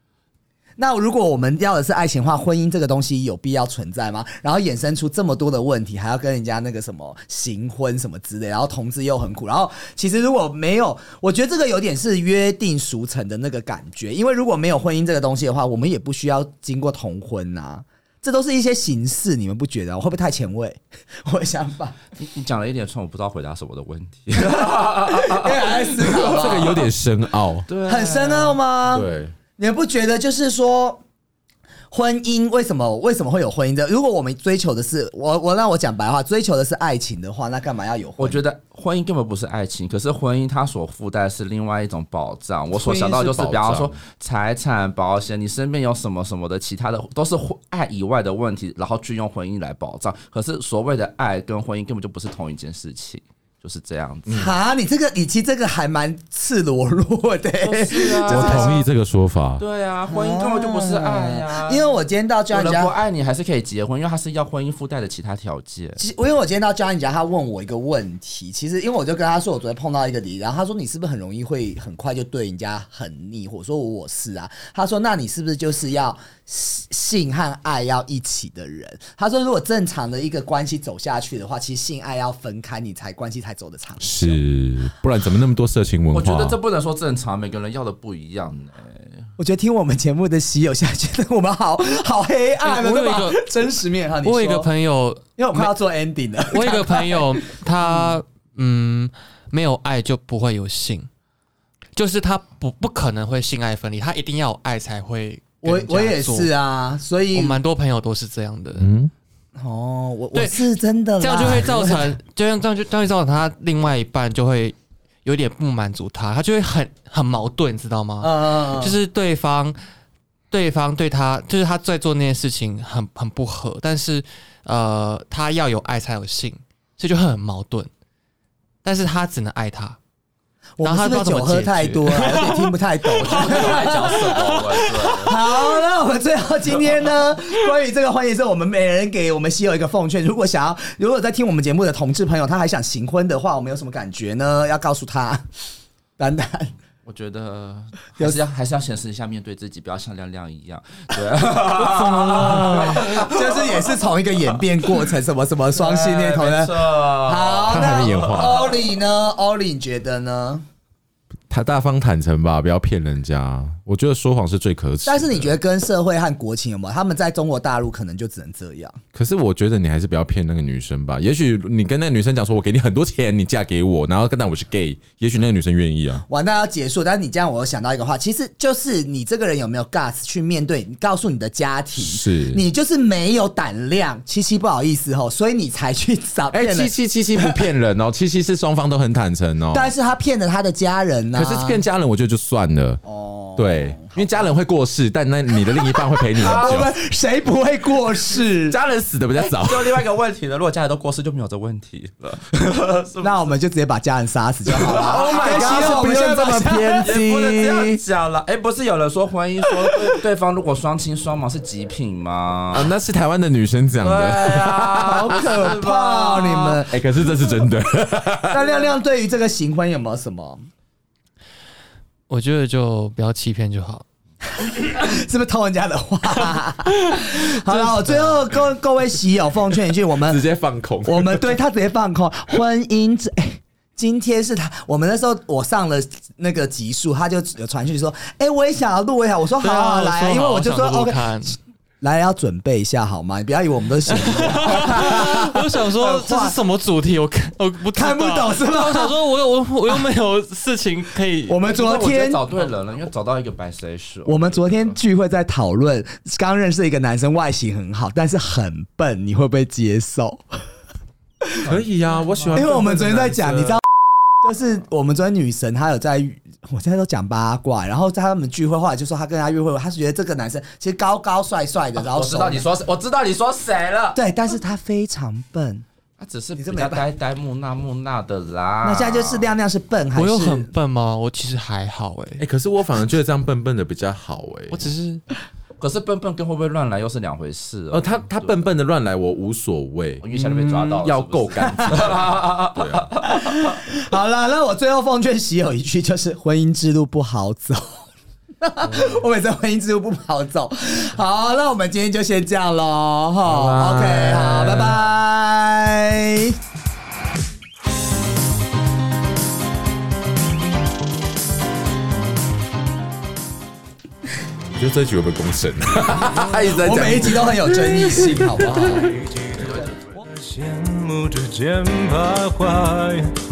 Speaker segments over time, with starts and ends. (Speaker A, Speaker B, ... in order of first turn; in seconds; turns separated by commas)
Speaker A: 0.8-22.0, Speaker B: 22.2-26.7, Speaker A: 24.5-26.9, Speaker C: 26.2-27.7, Speaker B: 27.7-28.6, Speaker A: 27.9-31.0, Speaker C: 28.9-29.3, Speaker A: 31.9-38.4, Speaker B: 38.2-54.5, Speaker C: 42.7-44.0, Speaker A: 54.3-58.8, Speaker B: 57.6-58.8, Speaker C: 58.2-59.6, Speaker B: 59.6-62.0, Speaker A: 60.1-62.9, Speaker B: 62.5-66.0, Speaker A: 66.0-84.4, Speaker C: 84.0-86.6, Speaker B: 86.1-89.3, Speaker A: 89.4-94.7, Speaker D: 92.6-93.5, Speaker D: 94.2-95.7, Speaker A: 95.4-98.2, Speaker D: 96.5-101.1, Speaker D: 102.0-106.5, Speaker A: 105.6-107.6, Speaker D: 107.3-108.9, Speaker C: 108.7-109.1, Speaker A: 109.5-112.2, Speaker D: 110.3-110.7, Speaker D: 111.2-119.8, Speaker A: 118.2-119.0, Speaker D: 120.5-127.9, Speaker D: 128.8-130.0, Speaker A: 130.8-134.6, Speaker D: 130.8-135.3, Speaker B: 133.2-135.6, Speaker A: 135.2-145.5, Speaker A: 146.2-146.7, Speaker B: 147.0-154.6, Speaker D: 151.8-153.1, Speaker A: 152.4-160.6, Speaker B: 155.7-158.8, Speaker C: 157.7-158.7, Speaker C: 161.5-165.6, Speaker A: 165.1-169.0, Speaker C: 169.1-176.2, Speaker A: 176.3-187.6, Speaker C: 181.9-182.6, Speaker C: 186.5-189.9, Speaker A: 189.7-191.7, Speaker C: 191.3-193.0, Speaker D: 191.5-191.8, Speaker A: 193.0-194.2, Speaker C: 193.6-196.9, Speaker A: 196.3-198.8, Speaker B: 196.4-196.8, Speaker C: 198.7-200.0, Speaker B: 199.3-203.5, Speaker A: 203.2-207.1, Speaker B: 204.7-206.4, Speaker C: 204.8-208.0, Speaker B: 207.0-212.9, Speaker C: 212.7-215.8, Speaker B: 214.0-216.8, Speaker A: 214.9-217.0, Speaker C: 216.9-218.8, Speaker A: 218.5-220.7, Speaker D: 222.3-224.1, Speaker A: 224.6-230.4, Speaker D: 227.1-228.7, Speaker C: 230.1-231.6, Speaker A: 231.0-246.6, Speaker D: 239.6-241.6, Speaker D: 244.1-251.6, Speaker A: 247.9-249.1, Speaker A: 251.5-252.5, Speaker B: 251.7-255.0, Speaker A: 254.2-260.6, Speaker B: 261.6-262.7, Speaker C: 261.6-263.8, Speaker A: 262.5-263.8, Speaker A: 264.4-272.7, Speaker B: 272.0-274.2, Speaker A: 274.1-275.8, Speaker B: 276.2-279.5, Speaker A: 276.6-277.0, Speaker A: 278.8-280.7, Speaker D: 280.1-282.4, Speaker C: 282.4-284.8, Speaker D: 284.7-285.2, Speaker B: 285.8-288.6, Speaker C: 287.9-293.1, Speaker B: 290.2-293.8, Speaker A: 291.6-292.1, Speaker A: 293.2-298.1, Speaker A: 298.6-306.6, Speaker C: 303.4-305.1, Speaker C: 314.7-319.1, Speaker B: 316.6-317.2, Speaker A: 316.6-319.1, Speaker E: 318.9-323.3, Speaker B: 319.5-320.1